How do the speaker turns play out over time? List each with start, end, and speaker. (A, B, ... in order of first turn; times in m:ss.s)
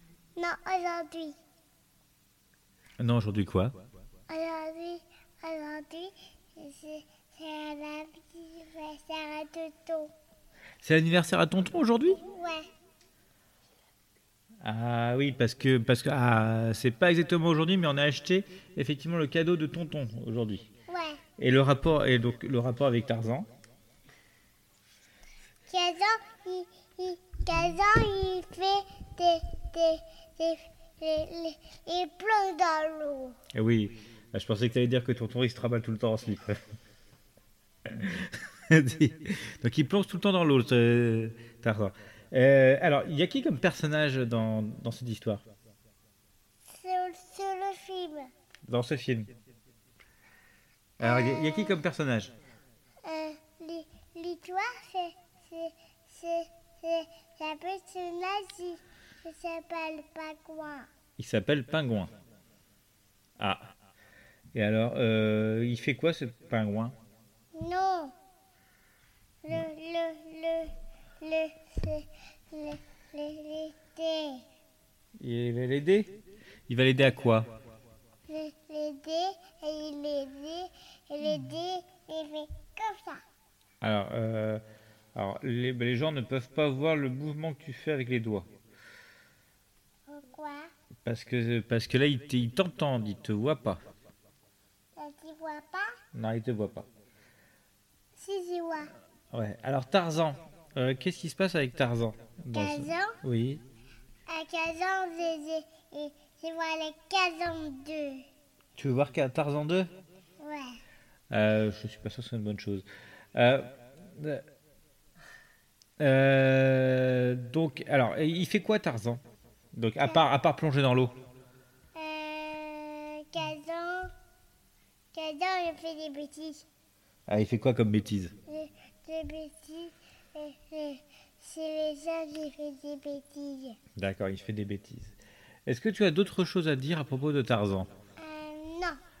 0:00.4-0:01.4 A
0:03.0-0:03.8 B
0:04.3-0:10.1 A
0:10.8-0:12.2 B
0:12.2-0:12.6 A
0:14.6-0:20.7 B
0:20.9-0:21.2 A
0:21.4-0:23.5 B
0:25.7-0:33.4 A
0:33.5-0:36.6 B
0:37.8-0:45.4 B
0:46.7-0:48.3 A
0:48.7-0:49.3 B
0:51.0-0:52.3 B
0:51.0-0:51.8 A
0:53.0-1:00.9 A
1:01.2-1:02.1 B
1:03.4-1:03.7 B
1:04.5-1:07.0 B
1:07.6-1:08.2 A
1:09.4-1:14.4 A
1:15.2-1:16.1 B
1:16.7-1:17.5 B
1:18.3-1:23.2 A
1:23.8-1:24.6 B
1:25.1-1:28.5 B
1:30.1-1:30.7 A
1:31.0-1:33.8 B
1:35.0-1:35.9 A
1:36.1-1:36.9 B
1:38.2-1:38.9 A
1:39.3-1:43.6 B
1:42.5-1:43.2 A
1:44.3-1:48.2 A
1:48.8-1:49.9 B
1:50.4-1:50.8 A
1:51.3-1:54.4 B
1:56.0-1:59.2 B
1:59.7-2:01.1 B
2:01.9-2:04.1 A
2:05.1-2:06.6 A
2:07.3-2:08.3 B
2:08.5-2:13.8 A
2:14.0-2:15.1 B
2:15.6-2:17.9 B
2:18.2-2:19.0 A